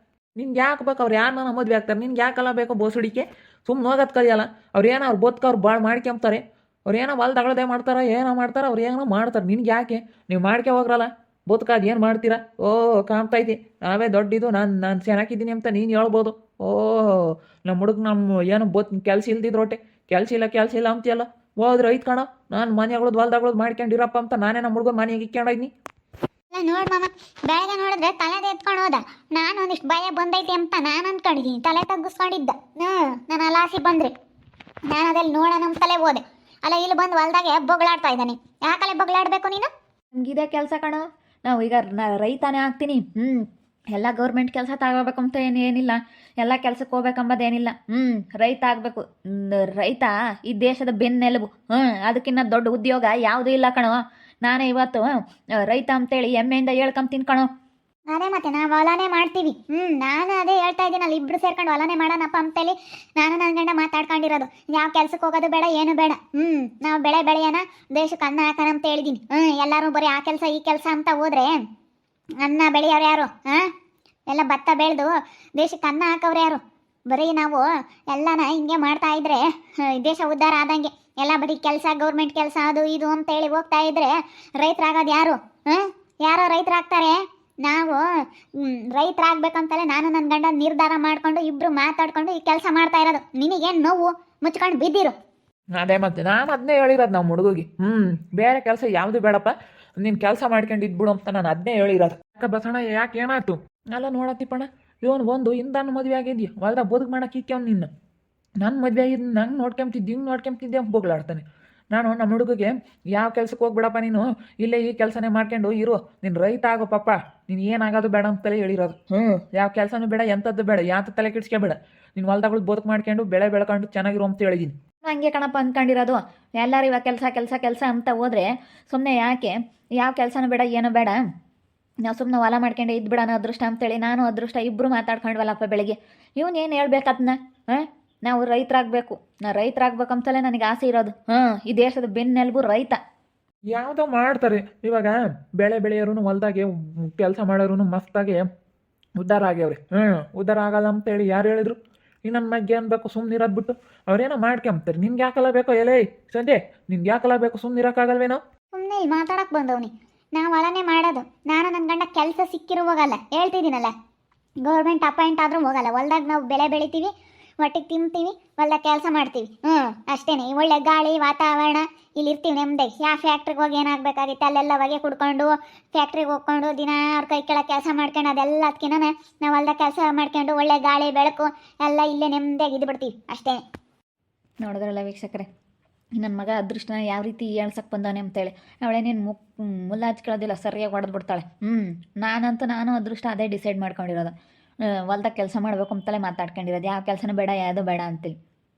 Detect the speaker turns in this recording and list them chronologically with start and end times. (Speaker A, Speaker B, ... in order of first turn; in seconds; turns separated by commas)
Speaker A: 0.4-25.7, Speaker B: 26.5-34.1, Speaker B: 34.9-39.7, Speaker C: 40.1-55.1, Speaker C: 55.6-57.5, Speaker B: 58.1-71.5, Speaker B: 72.4-73.7, Speaker B: 74.3-88.0, Speaker B: 88.6-95.1, Speaker A: 95.8-107.9, Speaker A: 108.6-124.7, Speaker C: 125.0-131.2, Speaker C: 132.1-143.0, Speaker A: 143.7-148.4, Speaker A: 149.2-158.4, Speaker B: 158.7-163.9, Speaker B: 164.6-183.6, Speaker C: 184.6-185.5, Speaker C: 186.2-194.3, Speaker C: 195.1-198.3